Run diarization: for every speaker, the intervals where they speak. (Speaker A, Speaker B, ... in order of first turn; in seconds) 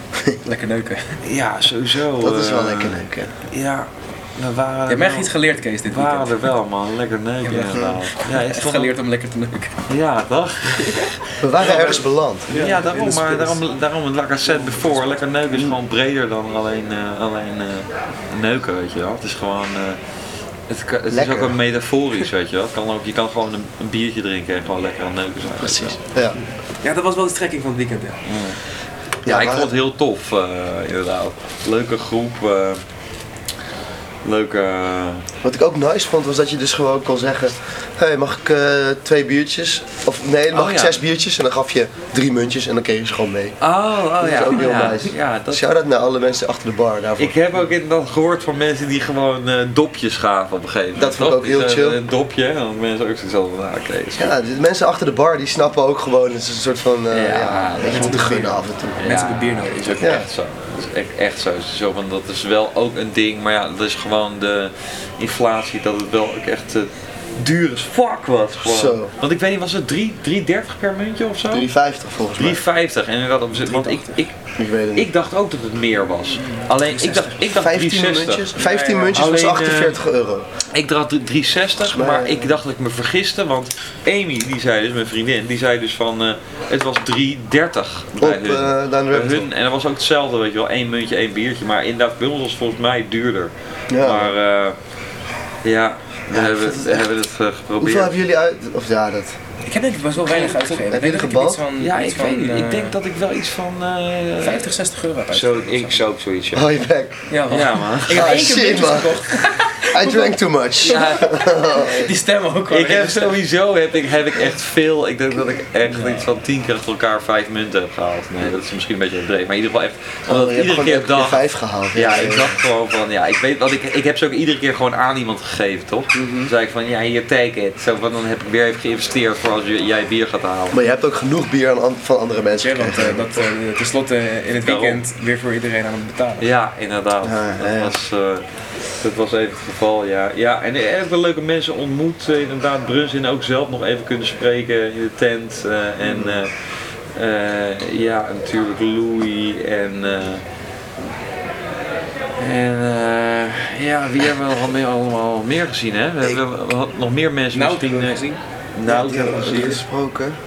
Speaker A: 0.5-1.2, 4.9-6.4, 7.4-9.8, 10.8-11.1, 12.5-13.6, 26.4-28.2, 57.9-60.1, 73.6-74.2, 76.4-77.4, 78.6-79.3, 99.7-103.0, 104.4-106.0, 107.3-113.4, 132.6-136.5, 157.5-158.4
Speaker B: 1.2-8.9, 9.9-20.0, 20.7-26.0, 28.3-28.6, 29.2-32.8, 34.2-35.2, 40.5-41.0, 43.6-45.7, 47.2-54.3, 57.1-71.7, 72.4-74.4, 75.0-78.6, 79.1-80.0, 80.7-94.8, 95.6-98.2, 101.8-104.7, 105.3-106.7, 107.5-108.6, 110.8-111.6, 112.7-121.4, 121.9-130.8, 134.6-135.0, 136.4-138.4, 139.0-146.5, 147.2-150.4, 152.4-159.8
Speaker C: 2.2-3.3, 7.7-8.0, 11.4-12.5, 21.1-21.6, 25.5-26.4, 29.2-29.7, 35.4-43.6, 44.2-47.4, 51.0-52.0, 54.2-59.0, 60.0-60.3, 68.6-69.1, 71.5-72.6, 74.6-75.1, 77.4-80.5, 81.8-82.6, 88.2-89.5, 93.9-94.4, 96.3-97.0, 97.8-99.4, 100.6-101.6, 106.5-107.2, 108.1-112.1, 120.3-122.5, 126.1-126.5, 130.7-133.4, 137.2-138.0, 146.0-146.4, 158.8-160.4